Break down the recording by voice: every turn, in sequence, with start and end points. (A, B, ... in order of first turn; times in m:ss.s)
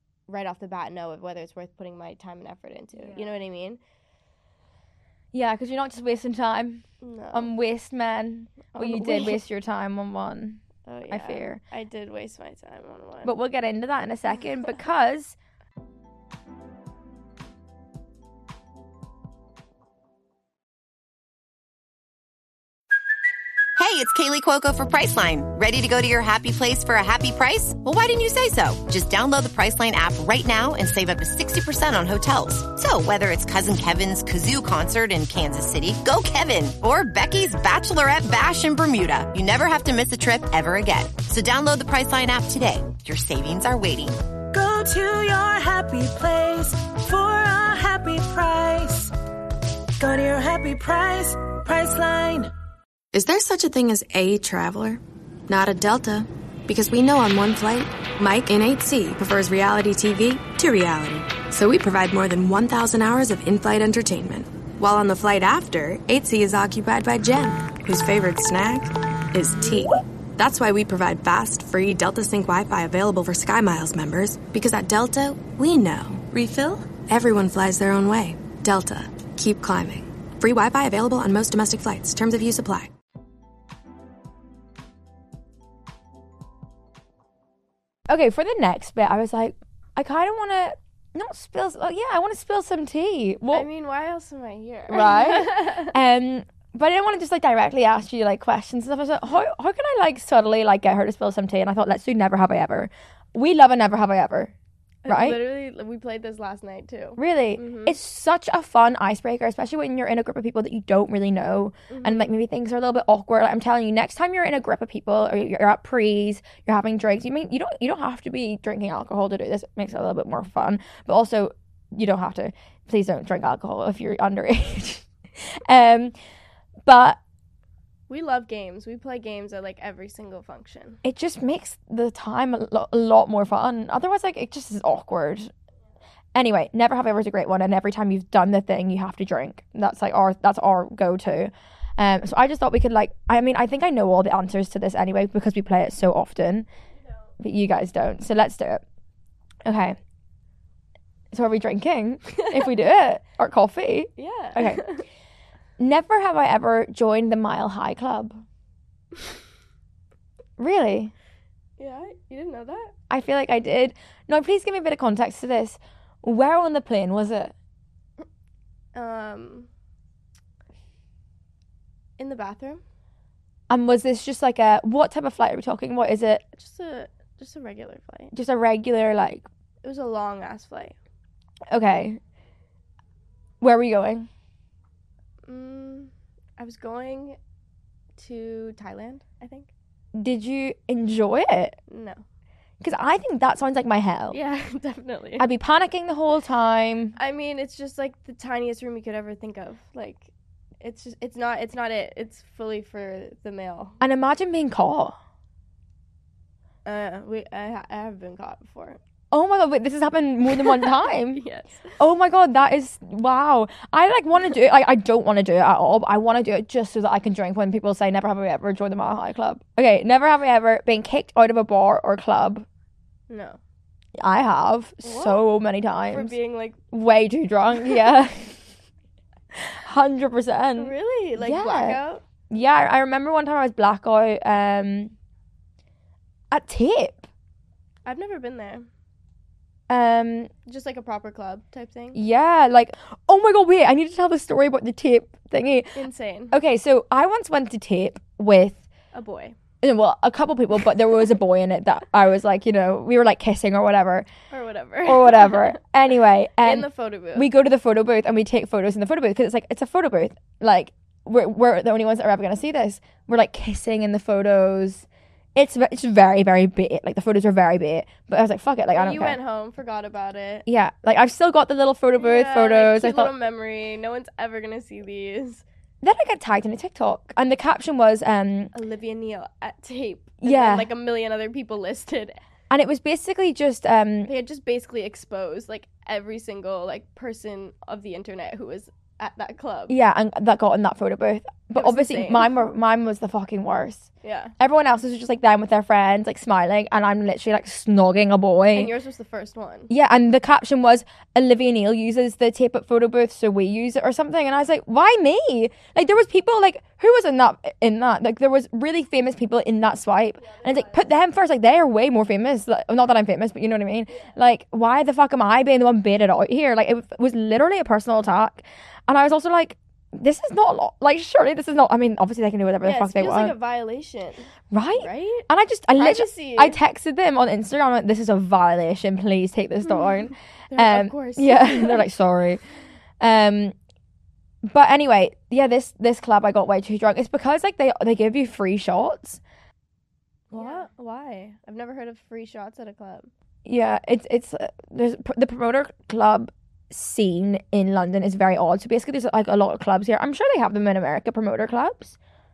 0:00.3-0:03.8 A
0:03.0-0:03.4 B
0:05.3-0:11.6 B
0:07.0-0:07.6 A
0:08.7-0:09.4 A
0:10.8-0:13.4 A
0:13.2-0:15.4 B
0:23.8-0:44.2 C
0:44.5-0:49.1 D
0:50.0-0:52.4 D
0:53.1-1:22.9 E
1:28.1-1:33.7 B
1:33.5-1:35.9 A
1:34.9-1:44.5 B
1:45.0-1:48.0 A
1:45.1-1:45.4 B
1:47.2-2:06.1 B
1:51.9-1:52.3 A
2:06.8-2:07.2 B
2:08.1-2:11.0 A
2:11.0-2:15.5 B
2:16.3-2:26.7 B
2:27.0-2:27.3 A
2:27.4-2:28.8 B
2:29.6-2:30.0 B
2:31.3-2:34.8 B
2:34.2-2:35.0 A
2:35.8-2:38.4 B
2:40.6-2:41.1 B
2:41.8-2:42.9 A
2:43.1-2:47.5 B
2:48.9-2:49.7 A
2:52.2-2:52.8 A
2:53.7-2:56.4 B
2:56.5-2:58.3 A
2:58.3-2:59.5 B
2:59.8-3:01.0 A
3:01.7-3:02.2 B
3:03.6-3:04.3 B
3:05.4-3:07.4 A
3:08.2-3:09.7 A
3:10.1-3:11.8 B
3:11.9-3:12.2 A
3:12.8-3:14.4 B
3:14.3-3:15.5 A
3:15.4-3:17.2 B
3:17.2-3:24.0 A
3:24.0-3:25.2 B
3:26.8-3:29.0 A
3:29.3-3:31.4 B
3:30.7-3:32.0 A
3:32.0-3:42.6 B
3:43.3-3:43.6 A
3:44.2-3:46.4 B
3:45.0-3:45.5 A
3:46.1-3:46.8 A
3:46.9-3:48.7 B
3:49.5-3:55.1 B
3:50.8-3:52.2 A
3:56.5-3:57.3 B
3:58.0-3:58.9 A
3:59.9-4:00.5 B
4:00.6-4:02.2 A
4:02.1-4:08.8 B
4:05.9-4:06.6 A
4:09.1-4:09.6 A
4:09.8-4:14.3 B
4:14.5-4:15.8 A
4:15.0-4:29.4 B
4:16.6-4:17.5 A
4:28.9-4:30.6 A
4:30.6-4:33.3 B
4:32.2-4:35.6 A
4:36.0-4:38.7 B
4:38.7-4:42.4 A
4:40.4-4:40.9 B
4:42.7-4:44.3 B
4:44.2-4:49.9 A
4:49.9-4:58.9 B
4:51.7-4:52.7 A
4:54.2-4:54.5 A
4:58.7-4:59.9 A
4:59.9-5:23.6 B
5:10.4-5:11.1 A
5:22.8-5:26.8 A
5:24.7-5:32.6 B
5:30.7-5:32.0 A
5:33.2-5:33.7 B
5:34.6-5:39.4 B
5:40.5-5:43.3 A
5:40.5-5:40.8 B
5:43.6-5:52.2 B